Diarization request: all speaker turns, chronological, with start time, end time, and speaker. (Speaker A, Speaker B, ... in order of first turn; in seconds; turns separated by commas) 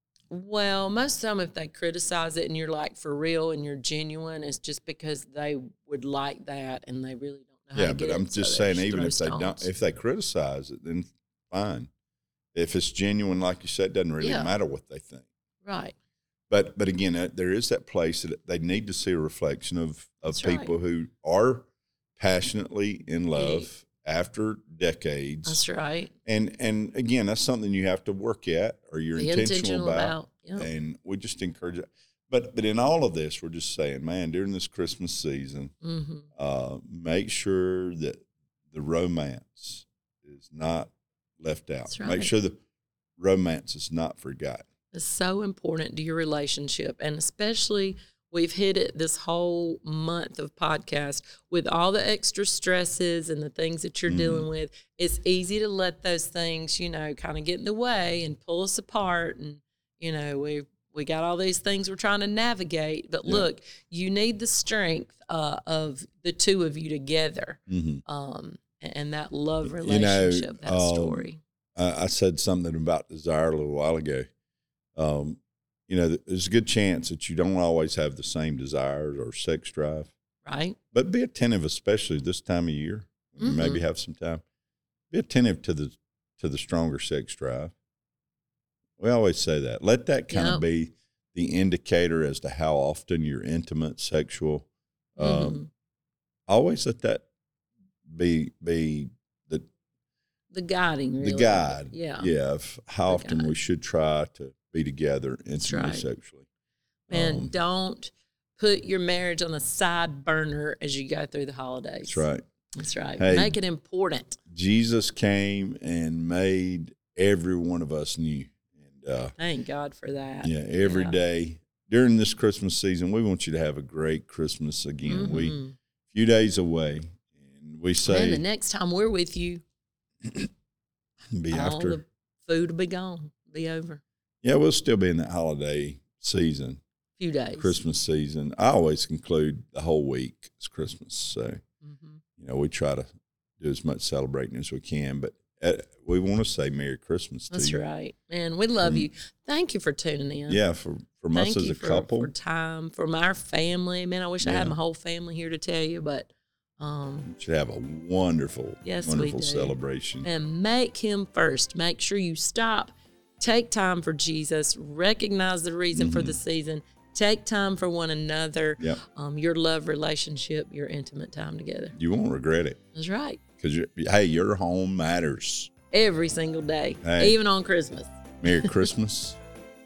Speaker A: 0.3-9.7, Speaker B: 7.7-11.9, Speaker B: 12.5-15.3, Speaker A: 14.2-14.5, Speaker A: 15.6-15.9, Speaker B: 16.5-25.6, Speaker A: 20.3-20.7, Speaker A: 23.3-23.7, Speaker A: 25.5-26.1, Speaker B: 26.3-35.7, Speaker A: 29.2-30.7, Speaker A: 35.8-36.3, Speaker B: 36.4-42.6, Speaker A: 41.9-42.3, Speaker B: 43.2-44.7, Speaker A: 44.9-71.4, Speaker B: 54.1-54.5, Speaker B: 67.7-68.0, Speaker B: 69.6-74.3, Speaker B: 75.0-80.1, Speaker A: 80.5-80.8, Speaker B: 80.9-84.4, Speaker A: 83.4-83.8, Speaker B: 85.1-87.8, Speaker B: 89.0-95.6, Speaker A: 90.3-90.6, Speaker A: 95.2-95.7, Speaker B: 96.5-97.3, Speaker B: 98.1-99.7, Speaker A: 100.5-102.3, Speaker B: 101.2-106.5, Speaker A: 103.1-103.5, Speaker A: 105.6-106.1, Speaker B: 107.1-107.5, Speaker A: 107.1-112.2, Speaker B: 112.1-112.5, Speaker A: 112.8-114.4, Speaker B: 113.2-113.6, Speaker B: 114.5-119.3, Speaker A: 119.4-121.2, Speaker B: 120.4-125.6, Speaker A: 125.1-125.8, Speaker B: 126.1-128.4, Speaker A: 128.0-129.6, Speaker B: 131.3-132.0, Speaker A: 131.5-134.0, Speaker B: 134.4-136.8, Speaker A: 137.2-137.8, Speaker B: 137.6-141.6, Speaker A: 141.8-142.2, Speaker B: 142.4-143.1, Speaker B: 143.6-147.8, Speaker A: 147.5-150.6, Speaker B: 148.8-149.1, Speaker B: 150.5-152.3, Speaker A: 151.3-157.3, Speaker B: 154.4-154.7, Speaker B: 157.3-160.3, Speaker A: 158.8-172.0, Speaker B: 165.9-166.4, Speaker B: 172.0-172.8, Speaker A: 172.9-173.4, Speaker B: 173.6-175.7, Speaker A: 175.9-178.9, Speaker B: 177.0-177.4, Speaker B: 178.4-179.4